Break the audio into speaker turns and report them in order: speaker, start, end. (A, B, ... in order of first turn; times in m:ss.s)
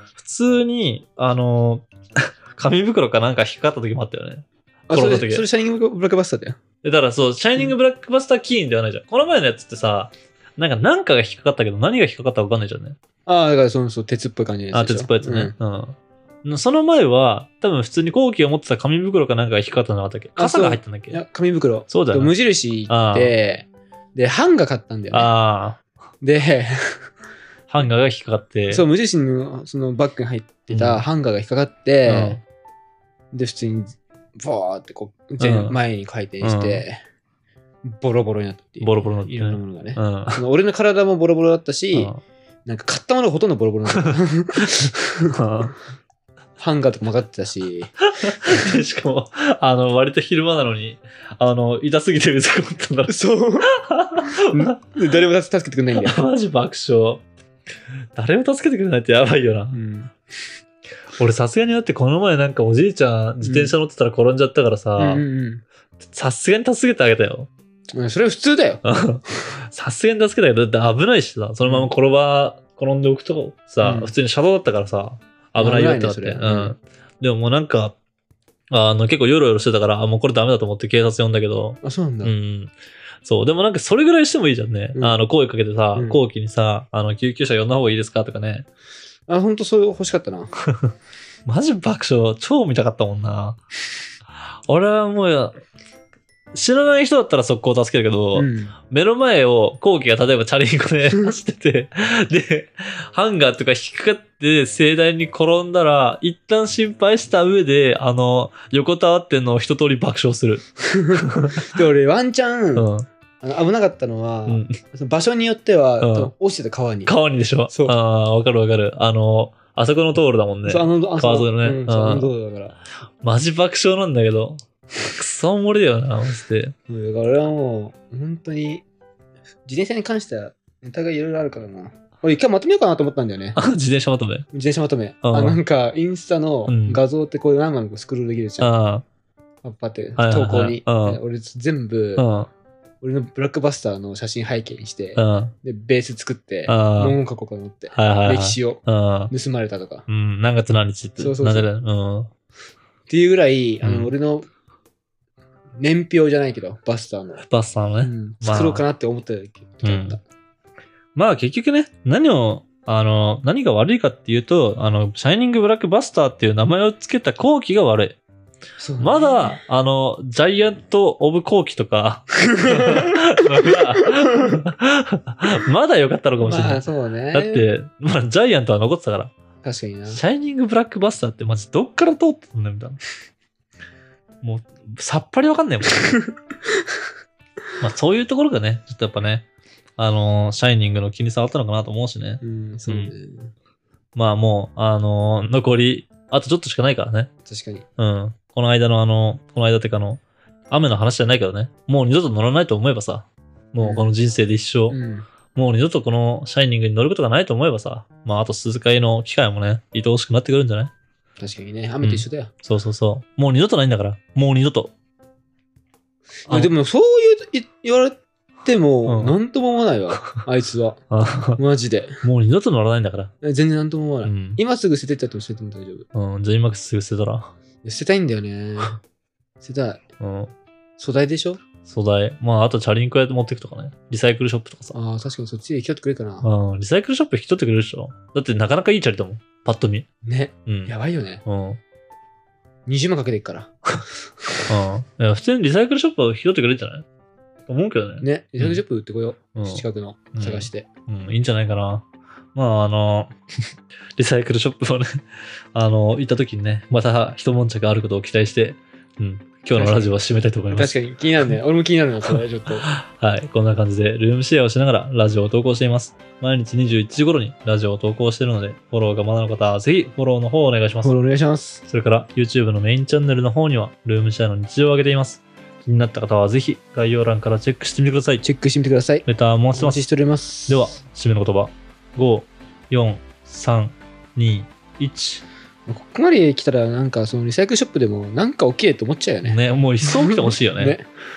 0:00.2-0:05.4 A
0:04.9-0:06.6 B
0:06.8-0:13.0 A
0:13.3-0:15.5 B
0:14.7-0:21.2 A
0:20.4-0:25.3 B
0:21.9-0:22.3 A
0:22.9-0:23.4 A
0:25.1-0:25.8 A
0:26.2-0:27.1 B
0:27.7-0:28.8 A
0:28.7-0:32.4 B
0:30.7-0:31.0 A
0:32.1-0:32.4 A
0:33.3-0:37.0 B
0:35.4-0:35.8 A
0:36.4-0:36.8 A
0:37.8-0:42.1 B
0:38.8-0:40.4 A
0:41.9-0:42.2 A
0:42.7-0:45.4 B
0:44.6-0:45.8 A
0:46.6-0:47.9 B
0:48.2-0:53.2 A
0:53.1-0:53.7 B
0:53.8-0:54.8 A
0:54.3-0:56.2 B
0:56.0-0:57.2 A
0:58.1-0:59.8 A
0:59.7-1:00.1 B
1:01.2-1:05.2 A
1:03.4-1:03.8 B
1:05.0-1:05.6 B
1:06.0-1:07.5 A
1:08.0-1:08.8 B
1:08.8-1:18.0 A
1:11.6-1:11.9 B
1:13.8-1:14.1 B
1:15.6-1:16.8 B
1:18.7-1:28.7 A
1:21.8-1:22.3 B
1:26.0-1:26.2 B
1:29.3-1:30.5 B
1:31.5-1:33.6 A
1:34.7-1:35.6 A
1:36.5-1:51.8 A
1:38.4-1:38.8 B
1:50.9-1:52.9 B
1:52.8-1:53.1 A
1:53.4-1:57.1 B
1:54.5-1:54.8 A
1:56.0-1:56.3 A
1:57.1-2:02.3 A
1:57.7-1:58.0 B
2:00.7-2:02.8 B
2:03.2-2:06.7 A
2:06.9-2:08.8 B
2:09.7-2:13.6 B
2:13.6-2:14.5 A
2:14.5-2:18.7 B
2:15.2-2:15.6 A
2:16.7-2:17.0 A
2:18.6-2:19.0 A
2:19.6-2:22.3 B
2:20.2-2:21.2 A
2:22.2-2:22.5 A
2:23.0-2:30.1 B
2:25.2-2:25.5 A
2:26.7-2:27.2 A
2:27.9-2:29.3 A
2:30.1-2:32.3 A
2:31.2-2:31.7 B
2:33.1-2:34.5 B
2:33.8-2:34.1 A
2:35.8-2:37.4 B
2:37.4-2:38.8 A
2:38.0-2:40.2 B
2:39.8-2:40.2 A
2:41.2-2:48.2 A
2:48.8-2:49.6 B
2:49.0-2:59.3 A
2:56.4-2:57.6 B
2:59.6-3:00.2 B
3:00.1-3:03.0 A
3:04.4-3:06.0 A
3:06.0-3:06.2 B
3:07.8-3:13.1 A
3:12.4-3:13.5 B
3:14.2-3:17.3 A
3:17.5-3:17.8 B
3:18.0-3:25.0 A
3:23.8-3:24.1 B
3:24.9-3:25.3 B
3:25.5-3:30.9 A
3:31.4-3:32.5 B
3:32.0-3:34.9 A
3:36.5-3:41.0 B
3:39.1-3:39.4 A
3:41.1-3:41.6 A
3:41.6-3:42.2 B
3:42.2-3:43.3 A
3:43.4-3:46.1 B
3:44.2-3:44.6 A
3:46.1-3:47.5 A
3:47.8-3:49.0 B
3:49.6-3:50.0 B
3:50.2-3:50.5 A
3:51.0-3:51.6 B
3:51.8-3:55.0 A
3:54.9-3:56.5 B
3:56.4-4:00.1 A
4:00.2-4:01.4 B
4:00.7-4:00.9 A
4:01.4-4:01.8 A
4:02.9-4:03.7 B
4:04.7-4:07.0 A
4:07.7-4:08.8 A
4:08.2-4:10.9 B
4:09.6-4:09.8 A
4:10.4-4:13.4 A
4:14.2-4:15.2 A
4:15.7-4:21.5 A
4:19.8-4:20.1 B
4:20.7-4:22.9 B
4:22.8-4:31.1 A
4:31.0-4:31.8 B
4:31.9-4:38.4 A
4:38.4-4:40.9 B
4:39.3-4:40.0 A
4:40.7-4:45.4 A
4:45.9-4:51.1 B
4:49.4-4:51.0 A